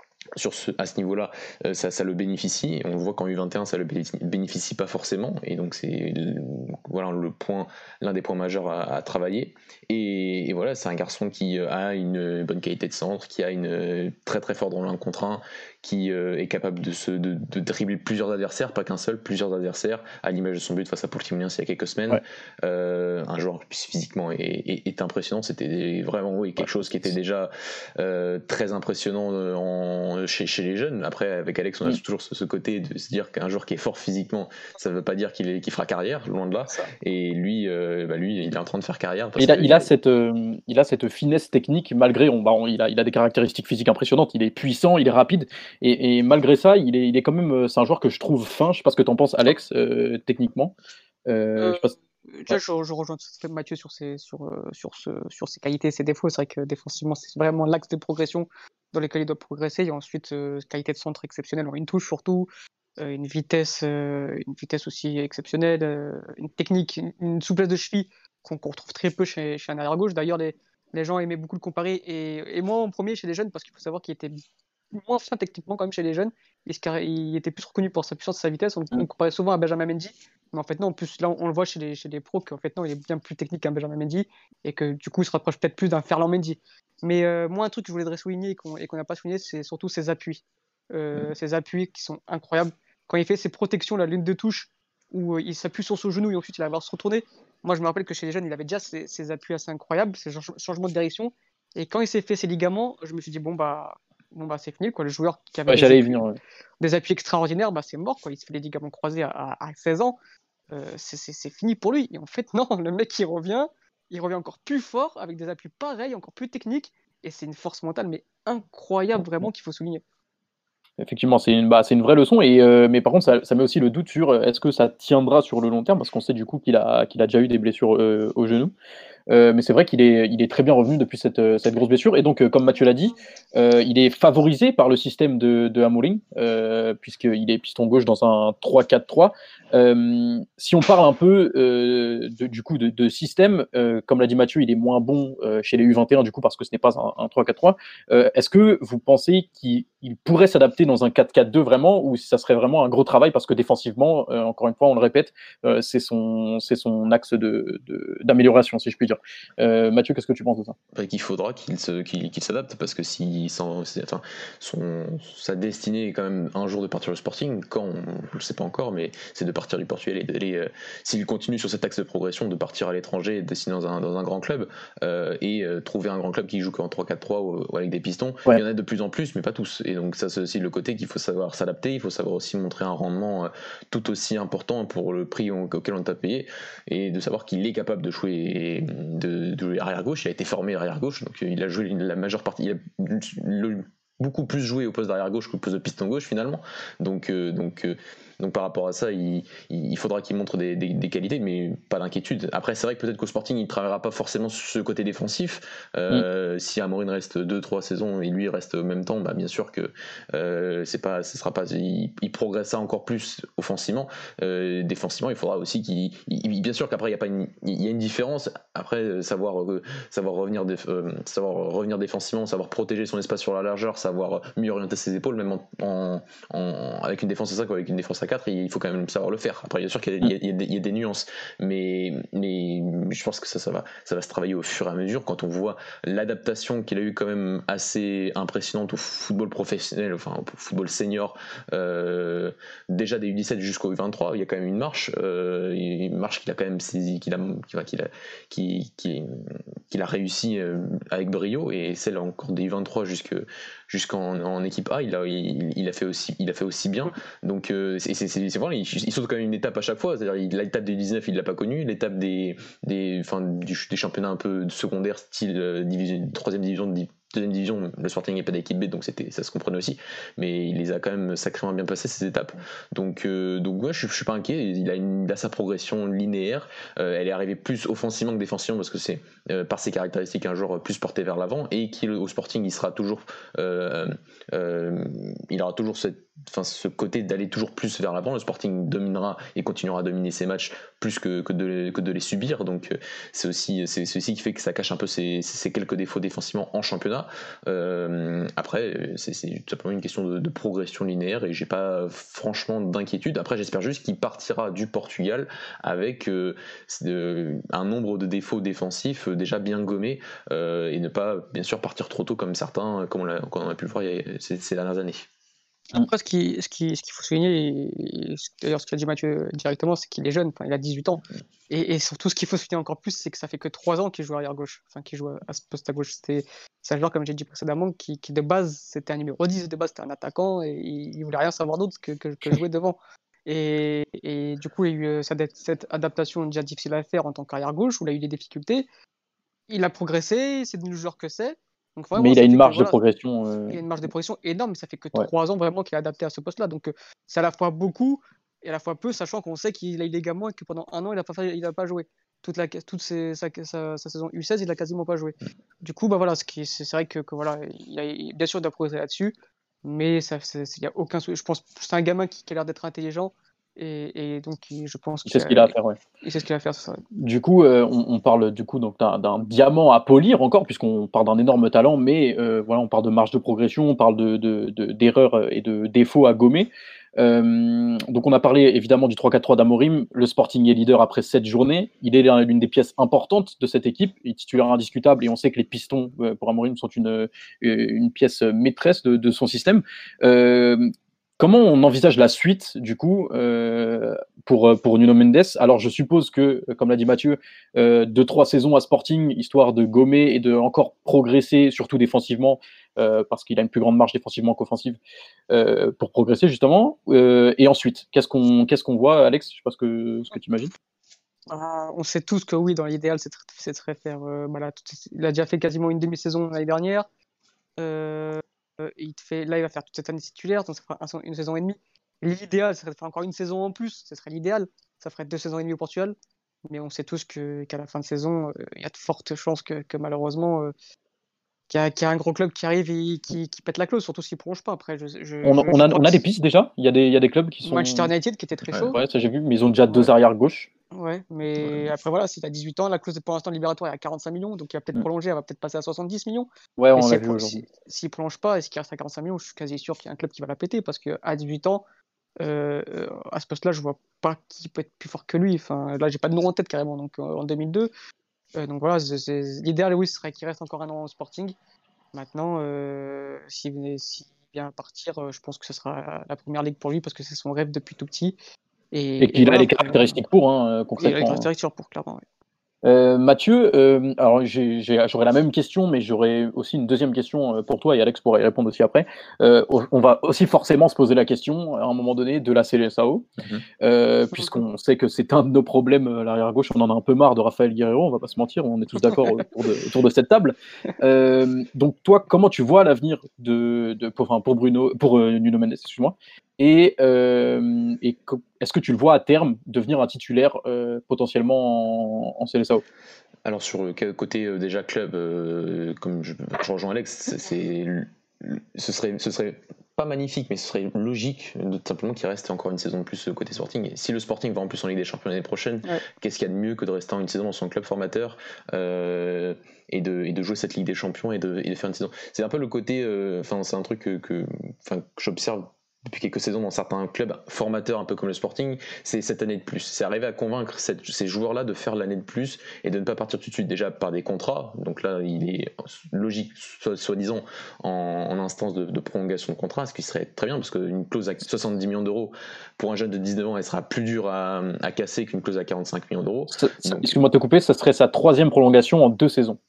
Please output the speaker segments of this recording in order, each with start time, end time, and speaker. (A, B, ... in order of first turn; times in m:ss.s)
0:00.4-0:39.9 A
0:39.4-0:50.7 B
0:51.3-0:51.9 B
0:51.6-1:14.3 C
1:14.9-1:46.2 C
1:45.7-1:46.4 B
1:46.8-1:50.2 C
1:50.7-2:00.0 C
2:01.0-2:08.7 B
2:09.3-2:40.7 B
2:40.9-5:15.3 A
5:15.9-5:38.9 C
5:39.7-5:43.0 C
5:42.2-5:43.8 B
5:43.7-6:07.0 C
6:05.3-6:06.0 B
6:07.1-6:45.0 B
6:45.5-6:50.7 B
6:51.5-6:57.0 C
6:57.8-7:06.1 C
7:06.6-7:10.7 C
7:11.7-7:16.2 C
7:15.4-7:18.1 B
7:17.6-7:19.0 C
7:18.9-7:20.7 B
7:20.9-7:31.8 C
7:26.8-7:27.6 B
7:32.4-7:37.9 C
7:38.6-7:41.6 C
7:42.1-7:48.4 C
7:48.9-7:50.2 C
7:49.2-7:51.5 B
7:51.0-7:52.2 C
7:52.8-8:03.3 B
8:03.8-8:22.8 B
8:23.4-9:07.2 A
9:06.5-9:09.6 B